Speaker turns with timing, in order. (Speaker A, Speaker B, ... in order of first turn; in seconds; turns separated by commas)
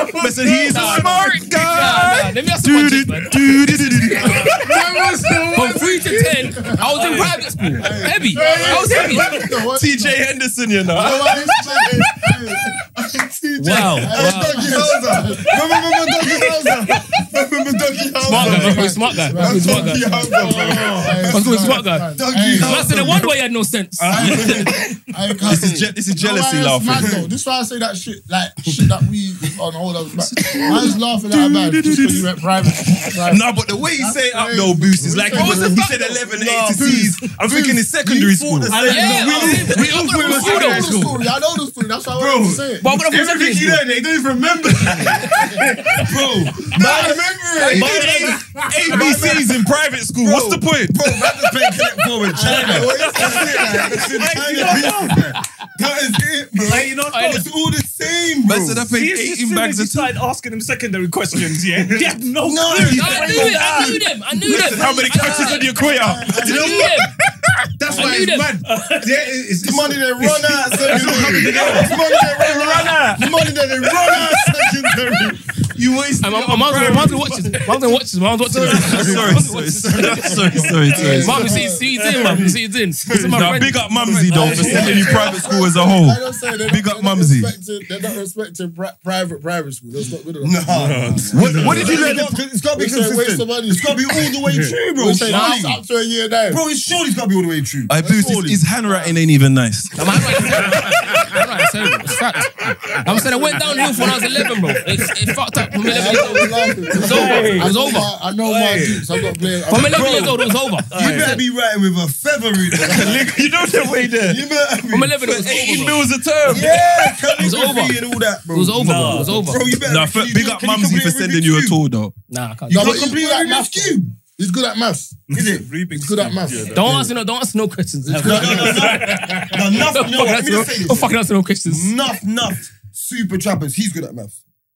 Speaker A: 0.2-4.7, Speaker B: 0.3-2.2, Speaker C: 0.7-4.5, Speaker D: 4.3-7.0, Speaker C: 5.5-9.3, Speaker B: 6.9-9.4, Speaker D: 7.8-10.2, Speaker A: 9.0-12.4, Speaker D: 10.9-12.6, Speaker E: 11.0-12.2, Speaker E: 12.8-23.3, Speaker C: 13.6-14.8, Speaker D: 14.0-15.7, Speaker D: 18.2-23.2, Speaker C: 18.2-20.3, Speaker F: 20.4-21.3, Speaker C: 21.3-24.7, Speaker E: 24.0-25.9, Speaker A: 24.1-24.6, Speaker D: 25.1-35.8, Speaker A: 25.4-27.1, Speaker E: 26.9-27.3, Speaker A: 30.2-39.1, Speaker E: 30.4-30.8, Speaker E: 35.0-40.0, Speaker C: 35.3-35.9, Speaker F: 38.7-41.2, Speaker C: 38.9-41.0, Speaker D: 39.4-42.9, Speaker B: 40.1-40.9, Speaker F: 42.1-46.1, Speaker C: 42.8-43.8, Speaker D: 44.9-45.6, Speaker E: 46.0-49.5, Speaker D: 46.6-48.5, Speaker A: 47.7-51.0, Speaker E: 50.2-58.9, Speaker D: 52.3-53.5, Speaker B: 52.4-55.4, Speaker B: 56.6-57.4, Speaker C: 57.1-57.5, Speaker A: 58.4-60.1, Speaker B: 58.9-64.0, Speaker E: 62.4-66.9, Speaker C: 62.8-65.8, Speaker A: 64.4-67.1, Speaker C: 66.3-67.1, Speaker F: 67.8-71.0, Speaker C: 67.9-68.5, Speaker B: 67.9-69.1, Speaker E: 69.6-75.5, Speaker B: 70.8-73.4, Speaker A: 71.0-71.5, Speaker B: 74.0-74.6, Speaker A: 75.8-77.4, Speaker B: 76.0-77.3, Speaker C: 76.2-84.0, Speaker E: 78.6-81.3, Speaker A: 78.7-81.5, Speaker B: 78.8-79.2, Speaker D: 80.8-82.0, Speaker E: 82.0-85.6, Speaker B: 82.0-82.5, Speaker A: 83.3-87.5, Speaker B: 84.0-85.2, Speaker D: 84.3-94.0, Speaker F: 84.4-85.2, Speaker E: 90.4-95.8, Speaker F: 90.7-92.0, Speaker A: 91.3-92.4, Speaker F: 94.4-94.8, Speaker D: 94.9-96.6, Speaker C: 95.3-95.6, Speaker E: 96.5-98.6, Speaker A: 97.9-100.2, Speaker C: 100.0-108.1, Speaker F: 100.9-101.2, Speaker D: 103.2-104.2, Speaker D: 105.9-110.3, Speaker E: 106.9-107.5, Speaker B: 107.0-107.8, Speaker B: 108.5-109.1, Speaker F: 108.6-109.0, Speaker C: 109.7-111.4, Speaker E: 109.7-113.3, Speaker B: 110.9-111.4, Speaker A: 112.8-114.4, Speaker E: 114.0-115.2, Speaker C: 114.9-116.1, Speaker A: 115.2-117.1, Speaker E: 116.4-121.8, Speaker C: 117.4-118.0, Speaker C: 118.5-119.7, Speaker B: 118.8-119.5, Speaker A: 119.8-122.1, Speaker C: 122.3-123.1, Speaker E: 122.7-124.2, Speaker D: 122.7-125.3, Speaker B: 125.3-126.9, Speaker E: 125.3-125.7, Speaker D: 125.9-127.1, Speaker C: 126.7-131.9, Speaker B: 128.1-129.6, Speaker D: 128.2-128.4, Speaker E: 128.2-131.1, Speaker E: 131.7-134.4